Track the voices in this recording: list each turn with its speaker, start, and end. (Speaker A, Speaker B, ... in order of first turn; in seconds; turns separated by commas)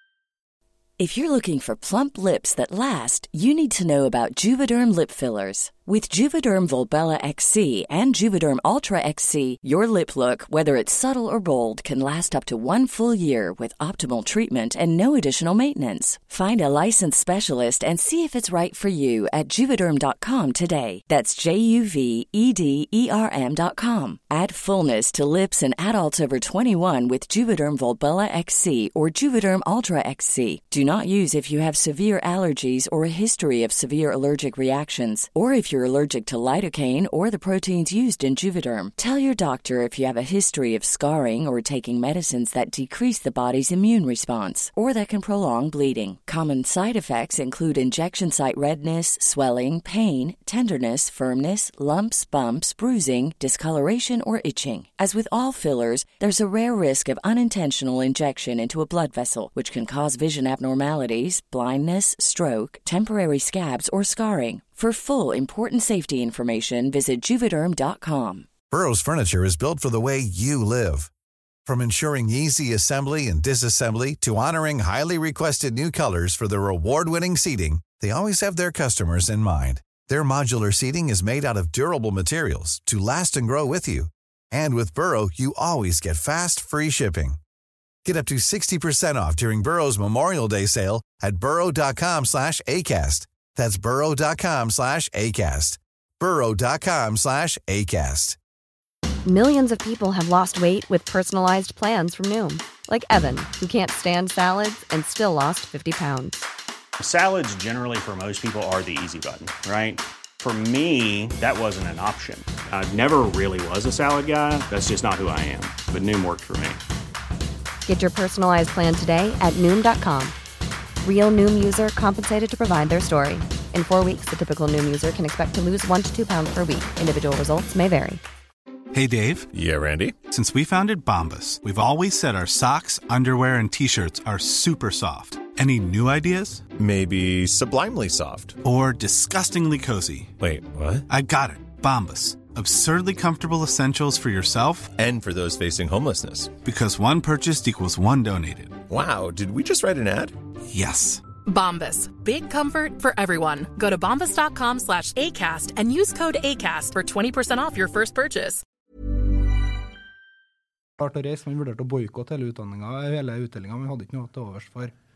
Speaker A: 1.0-68.5, Speaker B: 68.7-71.1, Speaker B: 71.7-87.4, Speaker B: 88.0-98.4, Speaker C: 99.2-106.4, Speaker D: 107.0-116.8, Speaker C: 117.9-120.3, Speaker C: 121.0-128.2, Speaker E: 128.9-129.5, Speaker F: 129.5-130.2, Speaker E: 130.3-136.7, Speaker F: 136.8-138.6, Speaker E: 138.6-140.3, Speaker F: 140.4-141.1, Speaker E: 141.1-144.9, Speaker F: 145.0-146.6, Speaker E: 146.6-148.8, Speaker F: 148.9-150.3, Speaker E: 150.7-151.2, Speaker G: 151.4-158.6, Speaker H: 161.0-164.9